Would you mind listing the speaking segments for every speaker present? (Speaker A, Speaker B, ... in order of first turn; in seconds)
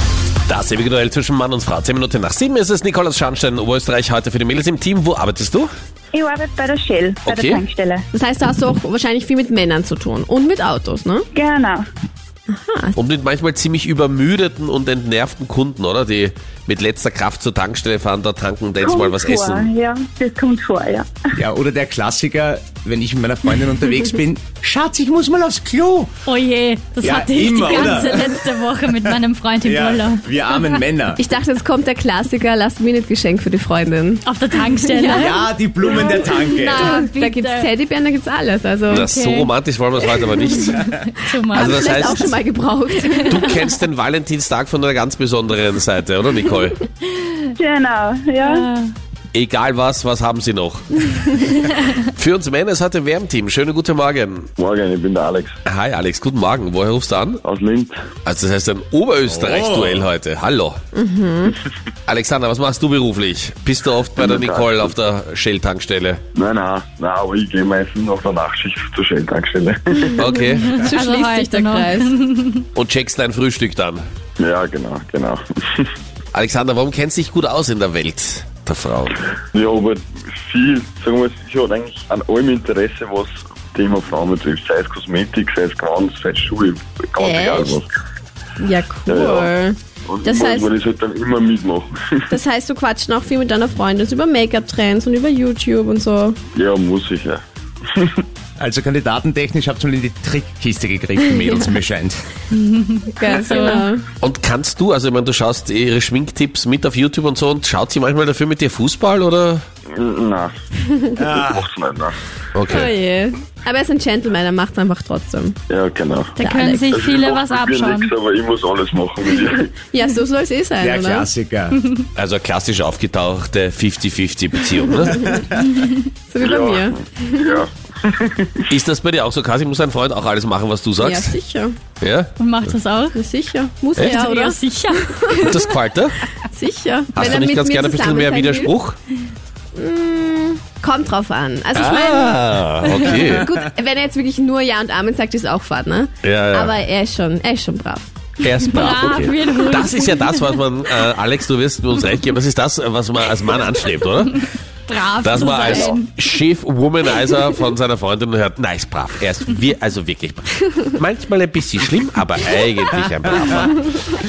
Speaker A: 0.5-5.7, 7.2-7.6, 13.0-19.7, 38.9-40.9, 41.6-42.3, 43.3-46.8, 49.3-54.5, 55.6-57.4, 58.2-60.8, 62.1-66.2, 70.2-70.8, 72.8-74.0, 76.3-79.2, 104.2-109.6, 112.5-112.9, 122.2-125.3, 128.7-131.4, 132.0-132.3, 135.4-136.2, 137.2-139.0, 141.8-143.4, 146.2-146.8, 148.4-154.4, 155.2-163.9
Speaker B: 6.1-8.1, 11.3-11.9, 18.8-21.3, 47.6-48.6
Speaker C: 8.1-11.3, 12.5-13.0, 31.2-39.1, 41.4-43.6, 61.0-61.6, 70.1-72.1, 87.2-87.8, 88.6-90.7, 92.3-96.4, 103.1-104.0, 112.7-115.6, 116.4-116.9, 119.9-121.3, 126.3-127.6, 131.0-131.8, 133.1-135.6, 136.4-138.7, 139.7-148.1, 148.8-149.3, 155.0-155.9
Speaker D: 21.4-26.1, 27.0-28.4, 29.0-31.2, 35.1-37.0, 59.3-60.1, 98.6-102.3, 111.2-111.7, 120.8-121.8
Speaker E: 26.3-30.8, 34.2-35.4, 36.7-37.7, 39.0-39.5, 40.4-42.3, 43.1-43.5, 48.5-48.9, 70.6-72.6, 102.6-103.0, 116.4-118.1, 132.4-133.2, 134.0-135.3, 148.6-150.5, 155.0-156.1
Speaker F: 54.6-55.6, 57.4-58.0, 64.2-64.9, 66.3-70.2, 74.4-75.9, 79.5-87.9, 89.1-89.5, 90.1-92.3, 96.5-98.2, 109.9-110.5, 111.3-112.2, 115.7-119.8, 126.4-128.7